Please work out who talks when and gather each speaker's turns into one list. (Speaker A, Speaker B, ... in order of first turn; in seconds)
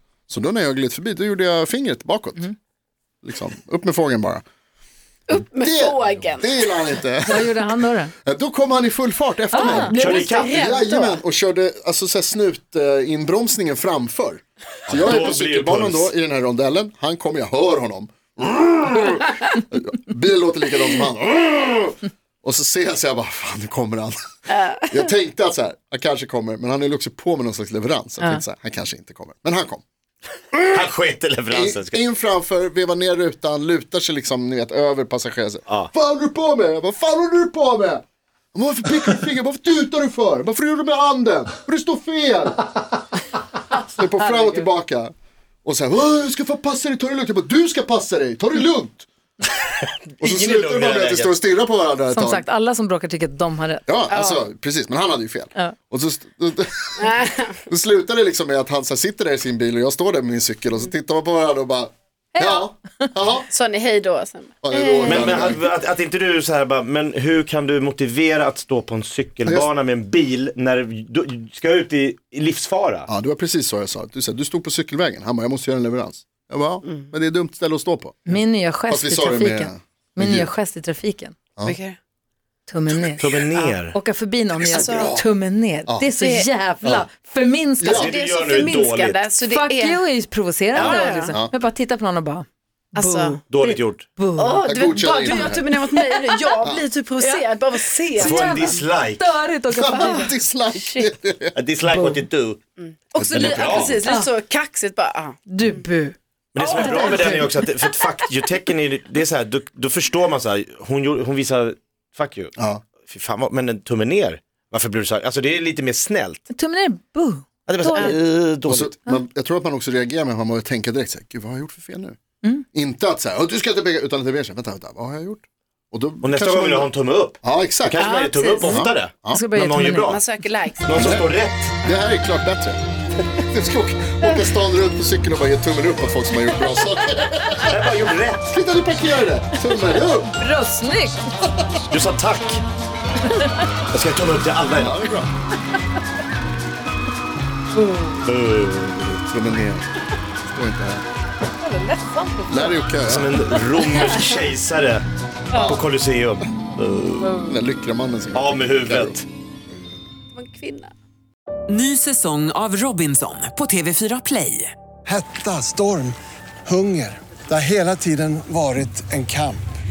Speaker A: 0.3-2.5, 3.2-4.4, 5.4-24.2, 24.9-29.8, 30.5-30.8, 31.5-38.0, 38.5-42.8, 43.9-45.1, 45.6-49.0, 50.2-52.4, 53.9-63.5, 64.6-65.6, 73.1-80.5, 82.9-83.2, 84.6-85.2, 87.8-88.1, 94.7-95.7, 99.7-101.5, 103.2-103.8, 112.6-112.8, 118.7-122.2, 122.7-128.1, 128.6-129.4, 130.9-131.3, 131.8-132.8, 133.5-137.7, 138.5-140.4, 144.8-145.3, 149.1-149.9, 150.4-151.0, 152.5-153.4, 155.6-155.8, 157.3-159.2
Speaker B: 5.3-7.0, 9.5-11.2, 24.5-25.1, 54.1-54.4, 57.0-57.6, 63.5-65.5, 76.8-77.1, 81.6-82.0, 84.7-85.2, 86.2-86.5, 87.9-90.0, 90.7-91.3, 92.9-93.4, 94.3-98.8, 99.9-101.1, 102.8-105.8, 106.6-108.1, 128.0-128.8, 130.1-131.1, 155.5-155.8, 160.3-160.9
Speaker C: 7.2-8.1, 9.5-9.9, 52.1-53.9, 62.3-63.1, 78.3-81.3, 82.7-88.1, 89.5-96.5, 98.1-100.3, 101.9-102.2, 103.8-104.3, 105.5-106.2, 106.7-107.5, 116.5-118.2, 129.3-130.2, 140.4-141.2, 151.6-152.8
Speaker D: 9.9-10.6, 14.9-16.1, 30.7-32.0, 50.2-51.4, 65.0-73.1, 83.2-84.0, 87.8-89.2, 93.5-94.0, 98.2-99.3, 101.5-102.6, 103.2-104.0, 106.5-116.4, 117.7-118.9, 126.2-130.2, 130.8-131.7, 137.6-138.5, 141.9-142.6, 143.9-145.0, 148.2-149.1, 153.1-157.5, 158.3-159.2
Speaker E: 161.7-164.7
Speaker F: 165.1-169.6